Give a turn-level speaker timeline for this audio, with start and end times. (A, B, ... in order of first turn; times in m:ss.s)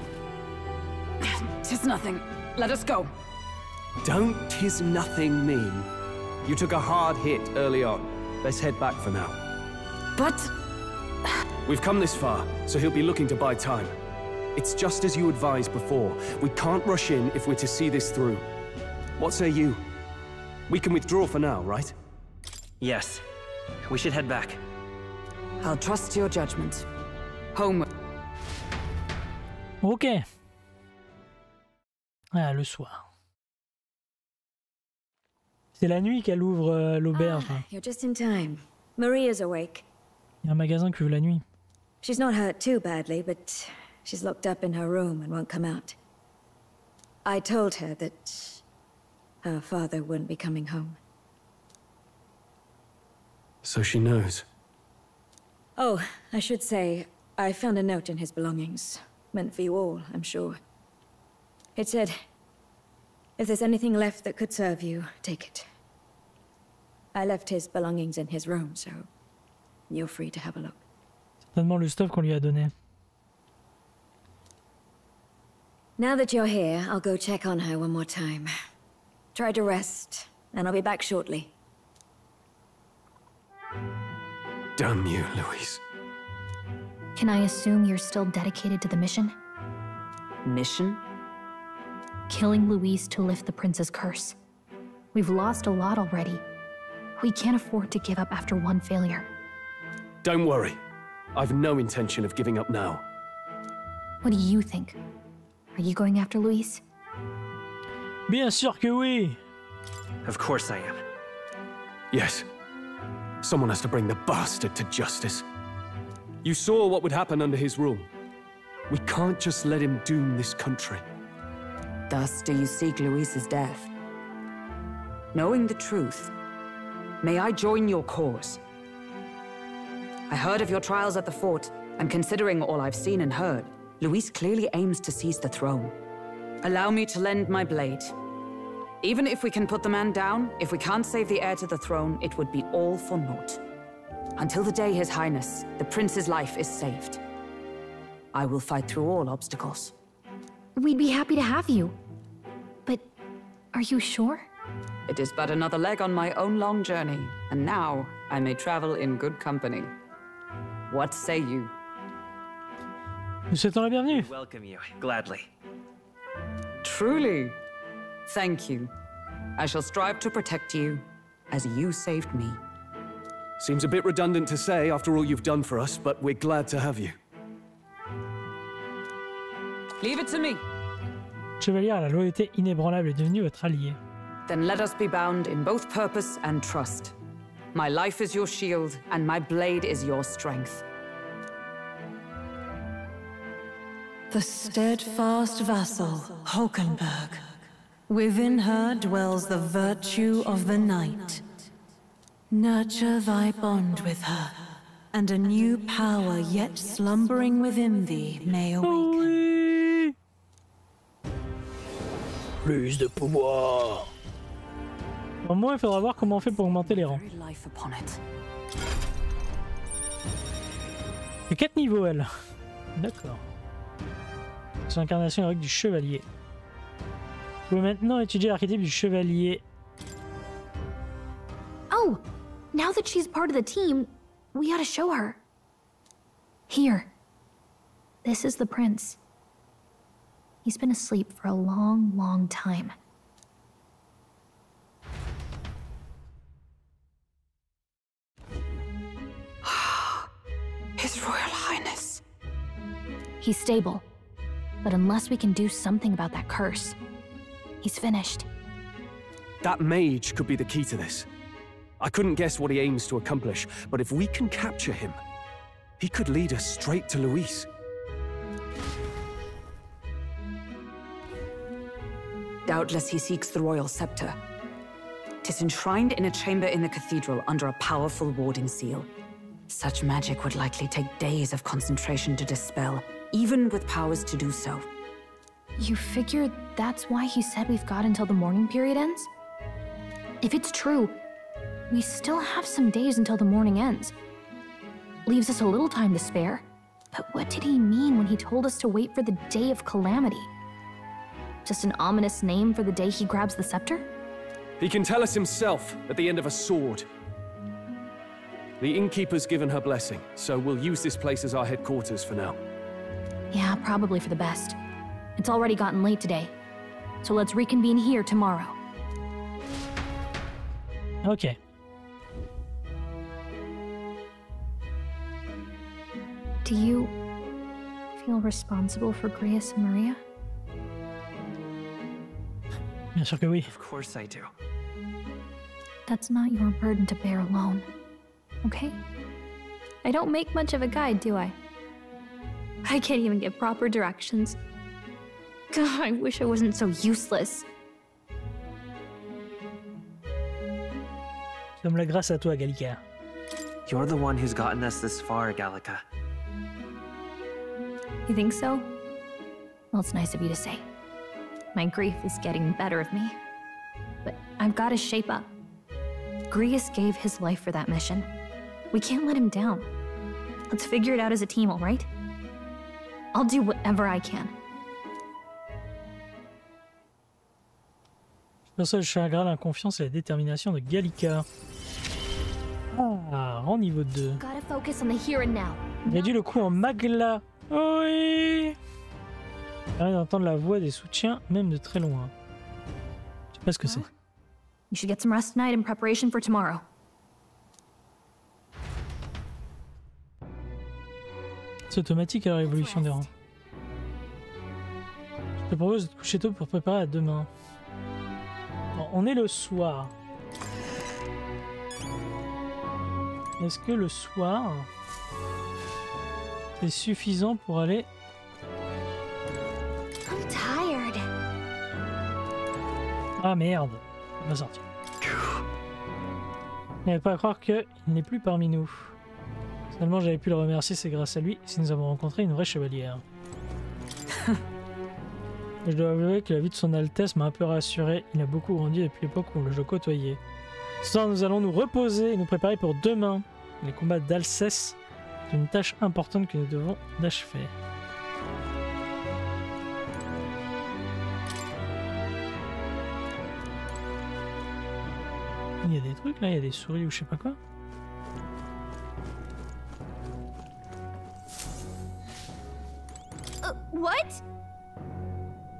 0:01.2-0:03.1 A
0:04.0-0:05.9 B
0:06.4-0:09.4 B
0:11.6-0:13.9 B
0:14.6-0:18.5 B
0:19.2-0:19.8 B
0:20.7-0:21.9 B
0:22.8-0:23.2 C
0:23.9-0:24.6 C
0:25.6-0:26.9 A
0:27.5-0:27.8 A
0:29.8-0:30.2 D
0:32.3-0:33.1 D
0:35.8-0:37.7 D
0:37.1-0:39.9 E
0:40.4-0:41.4 D
0:42.0-0:46.0 E
0:47.2-0:48.6 E
0:49.4-0:51.0 E
0:53.6-0:54.4 B
0:55.8-1:00.6 E
1:01.8-1:02.2 E
1:03.4-1:05.6 E
1:07.1-1:09.1 E
1:09.9-1:10.8 E
1:11.5-1:12.7 D
1:16.0-1:18.5 E
1:19.3-1:21.5 E
1:24.8-1:25.8 B
1:27.2-1:29.4 F
1:30.4-1:31.0 A
1:32.3-1:34.4 F
1:35.1-1:36.4 F
1:37.2-1:39.3 F
1:40.2-1:40.8 B
1:41.4-1:43.0 B
1:44.2-1:45.0 F
1:45.8-1:46.8 F
1:48.3-1:49.4 D
1:50.2-1:51.0 C
1:52.1-1:52.4 B
1:53.4-1:55.4 B
1:56.4-1:58.1 B
1:58.9-2:01.0 B
2:02.1-2:03.9 A
2:05.3-2:06.3 A
2:07.2-2:08.6 A
2:10.3-2:16.0 A
2:16.6-2:18.1 A
2:19.0-2:23.6 A
2:24.4-2:27.2 A
2:28.3-2:29.9 A
2:30.8-2:32.0 F
2:33.7-2:34.5 F
2:35.1-2:39.9 A
2:40.9-2:41.7 A
2:43.5-2:44.3 D
2:44.1-2:45.5 C
2:46.8-2:47.6 A
2:48.3-2:48.9 A
2:49.6-2:52.6 A
2:53.6-2:57.2 B
3:00.0-3:00.6 A
3:01.6-3:04.0 D
3:04.5-3:07.2 A
3:07.7-3:10.8 A
3:14.3-3:17.5 G
3:18.1-3:21.6 G
3:22.5-3:24.6 G
3:25.1-3:29.3 G
3:28.8-3:30.1 D
3:32.6-3:34.1 D
3:35.4-3:37.2 D
3:36.2-3:38.2 A
3:41.5-3:42.3 D
3:43.0-3:43.4 D
3:44.9-3:46.3 D
3:47.7-3:49.6 D
3:51.9-3:55.4 F
3:56.7-3:57.1 F
3:58.2-3:59.2 F
4:00.6-4:03.0 F
4:09.6-4:10.3 A
4:11.0-4:12.2 A
4:13.4-4:14.0 F
4:14.8-4:17.0 F
4:17.8-4:18.5 F
4:19.6-4:21.3 B
4:22.0-4:25.2 B
4:26.0-4:27.7 B
4:32.7-4:34.4 A
4:35.4-4:39.1 A
4:39.7-4:44.9 A
4:45.8-4:49.3 F
4:50.4-4:51.2 F
4:51.9-4:54.1 F
4:55.2-5:00.5 F
5:01.6-5:04.1 F
5:04.8-5:07.1 B
5:08.8-5:12.6 B
5:13.5-5:14.8 F
5:15.4-5:16.5 F
5:17.2-5:18.8 F
5:21.2-5:21.6 D
5:26.6-5:27.2 F
5:28.2-5:30.2 F
5:33.1-5:33.7 D
5:33.7-5:34.5 C
5:36.1-5:37.9 F
5:38.6-5:39.0 F
5:40.0-5:41.6 F
5:42.8-5:44.6 F
5:45.7-5:47.7 F
5:51.8-5:53.0 D
5:53.9-5:56.0 C
5:58.3-5:58.9 F
5:59.9-6:00.8 F
6:01.8-6:03.4 F
6:04.2-6:05.5 F
6:06.5-6:08.3 F
6:08.9-6:09.9 F
6:10.7-6:12.1 F
6:13.3-6:14.5 F
6:18.8-6:21.5 D
6:22.9-6:24.4 D
6:24.4-6:26.7 F
6:26.1-6:28.8 D
6:30.0-6:32.3 D
6:33.5-6:34.1 D
6:34.9-6:36.8 F
6:41.9-6:43.3 D
6:42.6-6:43.3 F
6:45.6-6:47.5 D
6:48.9-6:50.1 D
6:53.6-6:54.9 D
6:56.8-6:58.1 D
7:00.3-7:01.2 F
7:03.4-7:04.8 D
7:07.0-7:09.1 D
7:09.9-7:13.2 D
7:15.8-7:20.4 D
7:21.0-7:25.0 D
7:25.5-7:27.7 D
7:35.8-7:37.6 D
7:43.6-7:44.4 F